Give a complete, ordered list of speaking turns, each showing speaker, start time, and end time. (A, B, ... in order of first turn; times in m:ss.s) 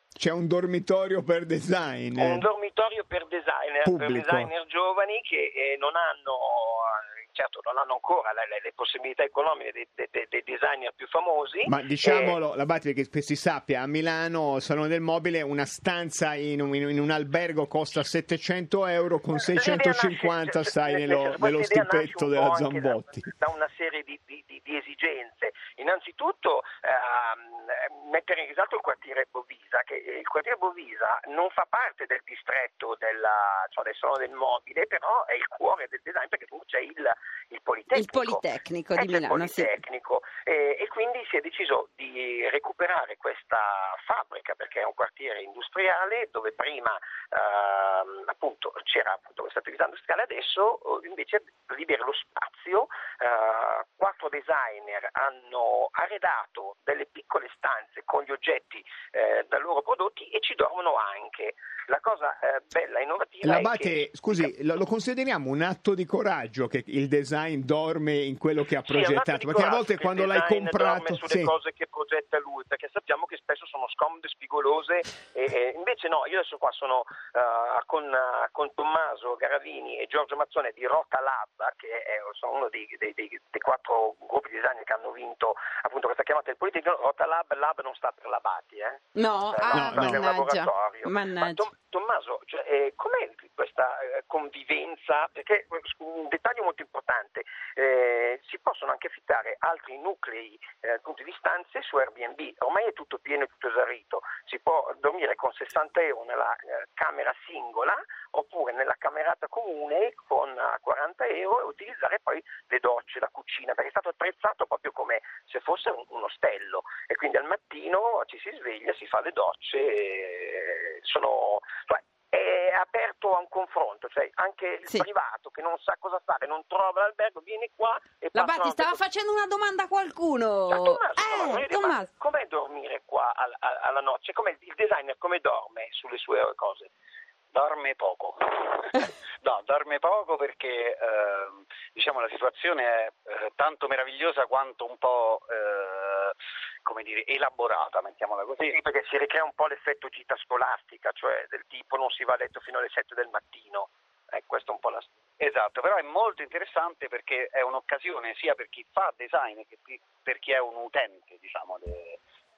0:00.2-0:02.5 A
0:02.2-0:12.4 B
0:03.8-0:04.5 A
0:11.6-0:23.3 A
0:19.4-0:38.4 B
0:37.9-0:39.7 C
0:39.0-1:04.4 B
1:03.4-1:11.5 A
1:08.8-2:09.0 B
1:29.1-1:31.7 C
1:29.7-1:30.3 A
2:08.3-2:12.1 C
2:10.7-2:16.9 B
2:17.5-2:26.3 D
2:26.8-2:28.8 D
2:28.6-2:35.1 B
2:35.4-2:42.2 D